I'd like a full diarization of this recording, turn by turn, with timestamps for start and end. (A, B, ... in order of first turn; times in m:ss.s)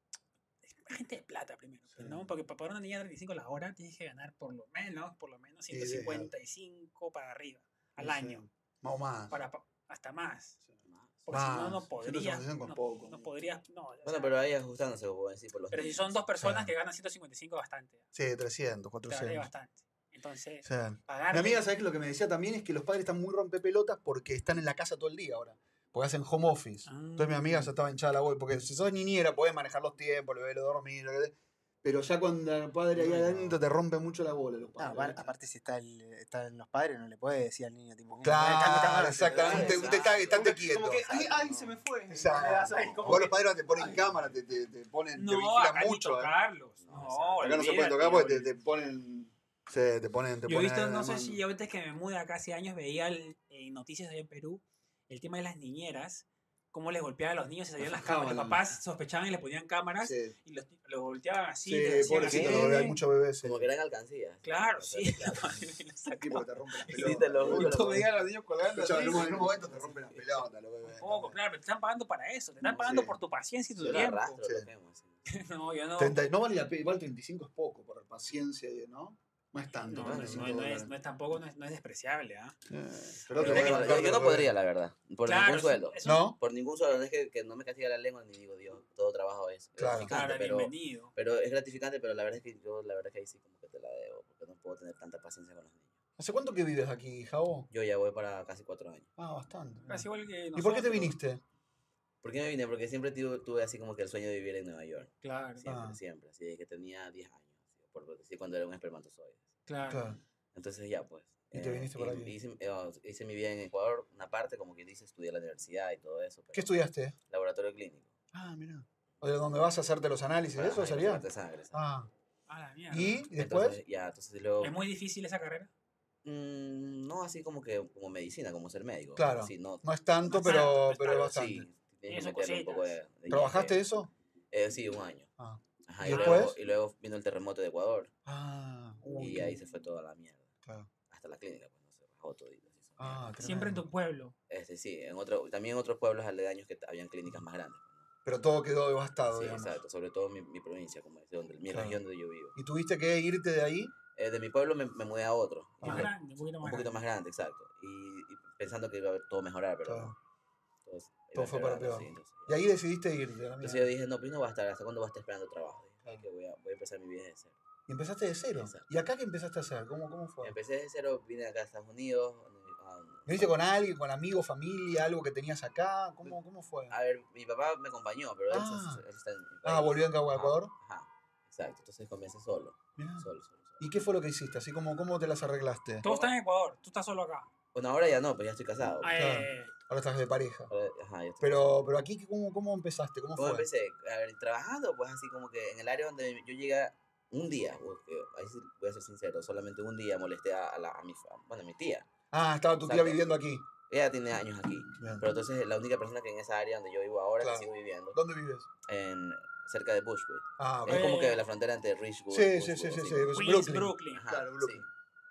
0:00.6-0:08.4 A
0:02.0-0:02.2 B
0:05.7-0:06.3 B
0:08.0-0:09.4 B
0:09.3-0:10.6 A
0:10.9-0:11.3 C
0:11.2-0:14.4 A
0:11.3-0:13.3 B
0:14.0-0:16.2 C
0:15.7-0:18.0 A
0:16.4-0:16.7 B
0:18.1-0:19.5 B
0:19.1-0:21.6 A
0:20.6-0:35.3 B
0:26.8-0:27.7 A
0:33.0-0:33.5 D
0:34.8-0:44.2 D
0:38.2-0:41.1 B
0:39.2-0:41.8 C
0:42.1-0:46.3 B
0:42.8-0:43.2 C
0:45.1-0:48.5 A
0:46.8-0:47.6 C
0:47.4-0:51.4 B
0:50.4-1:02.9 A
0:57.8-0:58.6 B
1:00.0-1:00.3 B
1:01.6-1:03.6 B
1:02.0-1:03.0 D
1:03.4-1:05.7 C
1:04.4-1:07.6 A
1:06.2-1:11.4 B
1:06.9-1:08.1 C
1:07.5-1:09.7 D
1:10.8-1:14.3 A
1:12.7-1:13.1 B
1:13.8-1:15.2 C
1:13.8-1:14.7 B
1:15.2-1:16.2 A
1:16.0-1:20.9 B
1:19.8-1:22.5 A
1:20.0-1:20.5 C
1:22.7-1:24.5 B
1:23.3-1:24.0 A
1:23.4-1:35.9 C
1:25.2-1:26.3 A
1:26.0-1:26.4 B
1:29.8-1:30.1 B
1:30.0-1:31.1 A
1:36.2-1:37.7 B
1:37.7-1:39.1 C
1:39.2-1:41.4 B
1:39.9-1:41.1 A
1:42.2-1:49.4 C
1:45.2-1:45.6 A
1:45.6-1:46.0 B
1:49.7-1:50.0 A
1:49.9-1:50.2 B
1:50.5-1:56.7 C
1:51.5-1:52.3 B
1:56.5-1:57.2 B
1:57.3-1:58.1 C
1:58.3-2:02.1 B
2:00.5-2:01.8 C
2:02.5-2:03.2 A
2:02.9-2:03.8 B
2:03.3-2:04.7 C
2:04.6-2:05.7 A
2:06.2-2:09.8 C
2:09.2-2:11.7 B
2:10.2-2:11.0 A
2:10.4-2:13.8 C
2:12.1-2:12.9 A
2:13.3-2:14.1 B
2:14.5-2:15.3 C
2:15.4-2:16.6 B
2:15.9-2:18.1 C
2:16.0-2:16.5 A
2:18.2-2:19.6 B
2:19.2-2:20.5 C
2:21.1-2:23.4 C
2:23.0-2:23.8 B
2:23.4-2:24.3 A
2:24.5-2:28.0 C
2:28.2-2:29.8 B
2:29.3-2:32.5 C
2:31.7-2:32.0 B
2:32.5-2:33.9 B
2:34.2-2:40.1 C
2:35.8-2:36.1 B
2:35.8-2:37.0 A
2:39.8-2:40.1 B
2:40.8-2:42.6 C
2:41.3-2:43.9 B
2:43.6-2:47.5 C
2:47.9-2:50.5 B
2:48.5-2:48.8 C
2:50.4-2:53.5 C
2:53.3-2:56.9 B
2:56.9-3:03.8 C
2:58.5-2:59.0 B
2:59.6-3:00.7 B
3:03.0-3:03.2 B
3:03.8-3:06.0 B
3:06.0-3:07.5 A
3:06.0-3:06.3 C
3:07.7-3:09.2 C
3:09.0-3:09.7 A
3:09.1-3:10.7 B
3:10.7-3:11.8 C
3:11.4-3:13.6 B
3:13.4-3:22.0 C
3:22.3-3:23.6 B
3:22.8-3:23.4 C
3:23.9-3:28.2 C
3:25.0-3:25.3 B
3:27.4-3:28.7 B
3:28.8-3:33.4 C
3:30.6-3:31.1 B
3:30.9-3:31.4 A
3:32.3-3:34.8 B
3:33.3-3:34.2 A
3:34.1-3:34.8 C